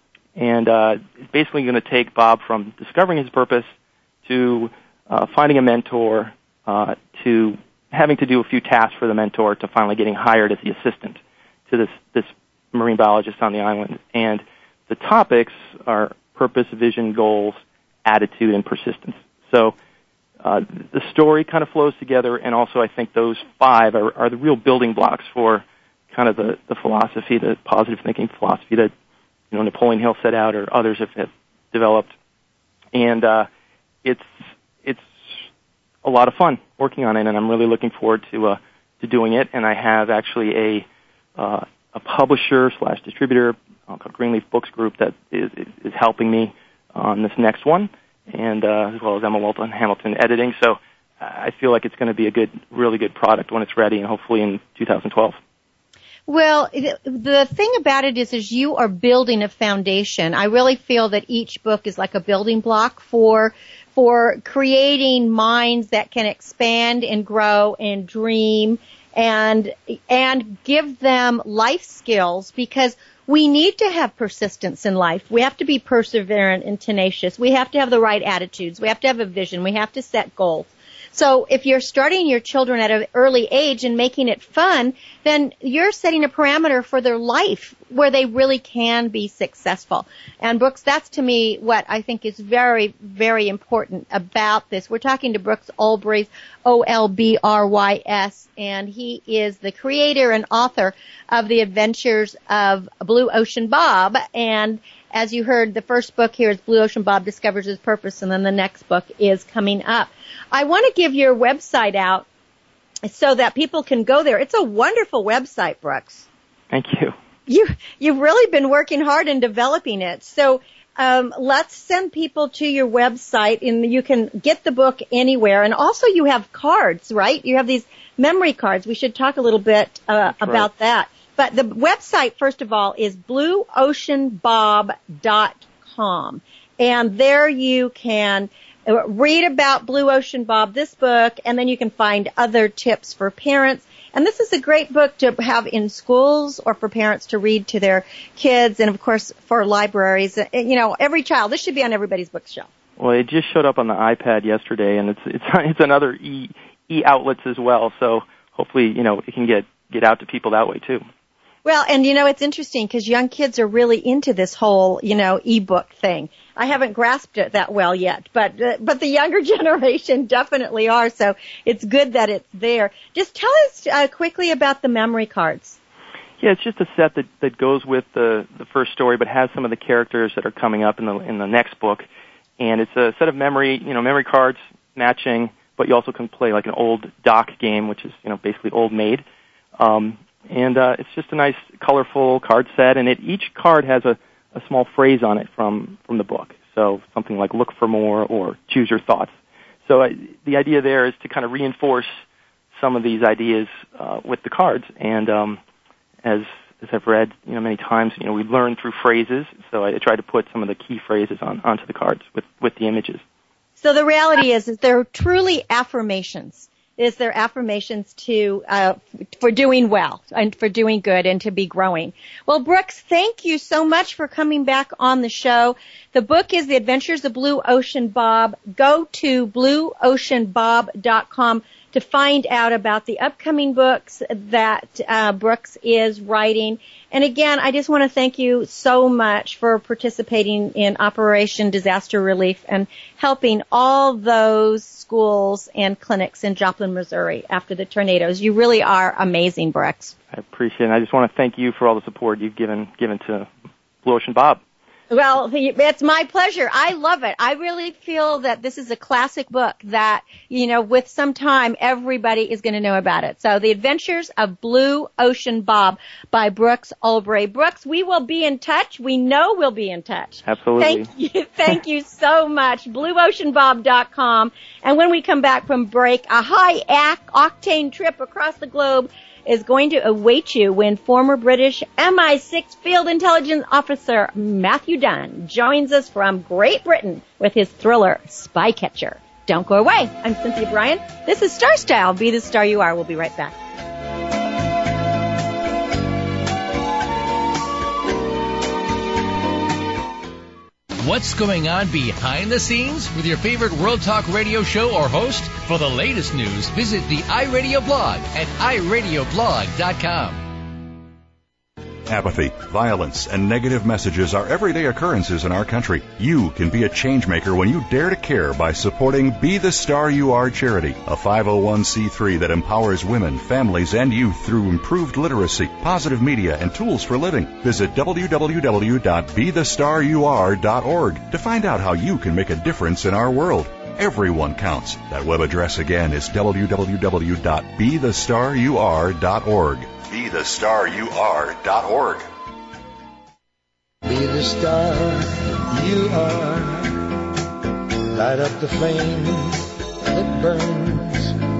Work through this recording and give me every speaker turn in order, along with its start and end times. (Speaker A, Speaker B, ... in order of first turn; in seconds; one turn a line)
Speaker A: 0.4-3.7
Speaker A: 4.3-19.7
Speaker A: 20.4-28.9
Speaker A: 29.5-32.1
Speaker A: 32.9-33.5
Speaker A: 36.0-40.9
Speaker A: 41.4-55.4
Speaker B: 56.3-112.3
Speaker B: 113.1-116.2
Speaker A: 116.7-117.2
Speaker B: 117.5-152.7
Speaker A: 130.4-130.7
Speaker A: 153.0-161.0
Speaker B: 161.7-175.8
Speaker A: 176.4-182.1
Speaker A: 182.6-189.2
Speaker A: 189.8-199.3
Speaker A: 199.9-202.2
Speaker A: 202.7-205.6
Speaker A: 206.2-213.2
Speaker B: 213.8-250.1
Speaker A: 250.3-253.5
Speaker A: 254.0-254.6
Speaker B: 255.1-293.6
Speaker A: 270.4-271.1
Speaker C: 301.0-310.4
Speaker D: 312.1-342.3
Speaker E: 344.1-347.2
Speaker E: 348.1-351.4